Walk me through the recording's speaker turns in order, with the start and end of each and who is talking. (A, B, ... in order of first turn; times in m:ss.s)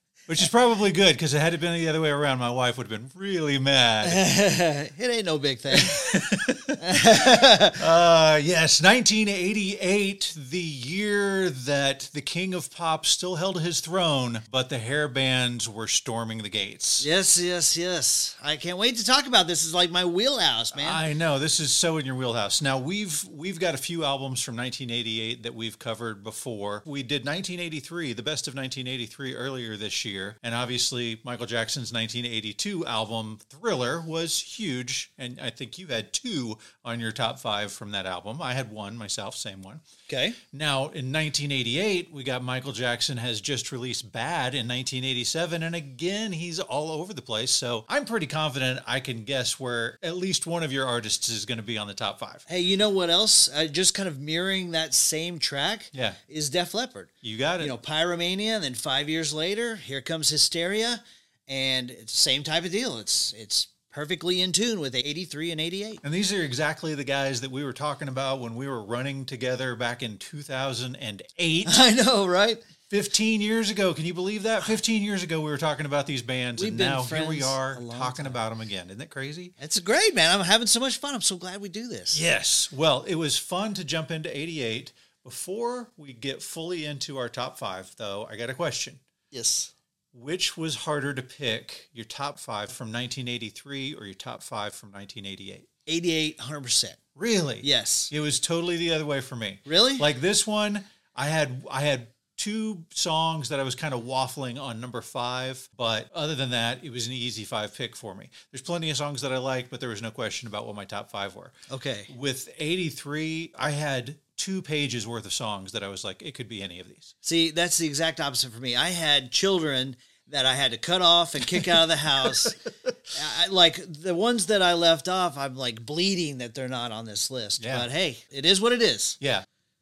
0:00.3-0:04.2 A
0:04.0-0:07.8 B
0:05.7-0:17.1 A
0:17.0-0:21.0 B
0:20.7-0:39.8 A
0:40.1-0:40.4 B
0:40.5-0:52.4 A
0:52.5-1:06.0 B
0:55.9-0:56.2 A
0:57.2-0:57.8 A
1:06.0-1:11.8 A
1:11.6-1:12.6 B
1:12.9-1:19.6 A
1:16.6-1:18.4 B
1:19.6-1:22.2 B
1:22.1-1:29.0 A
1:29.3-1:29.7 B
1:30.1-1:35.7 A
1:35.9-1:37.0 B
1:37.2-1:51.6 A
1:37.6-1:38.1 B
1:39.7-1:40.1 B
1:51.7-1:52.1 B
1:52.1-1:57.1 A
1:57.2-2:02.6 B
2:01.6-2:02.5 A
2:03.1-2:09.2 B
2:07.6-2:07.9 A
2:09.2-2:09.5 A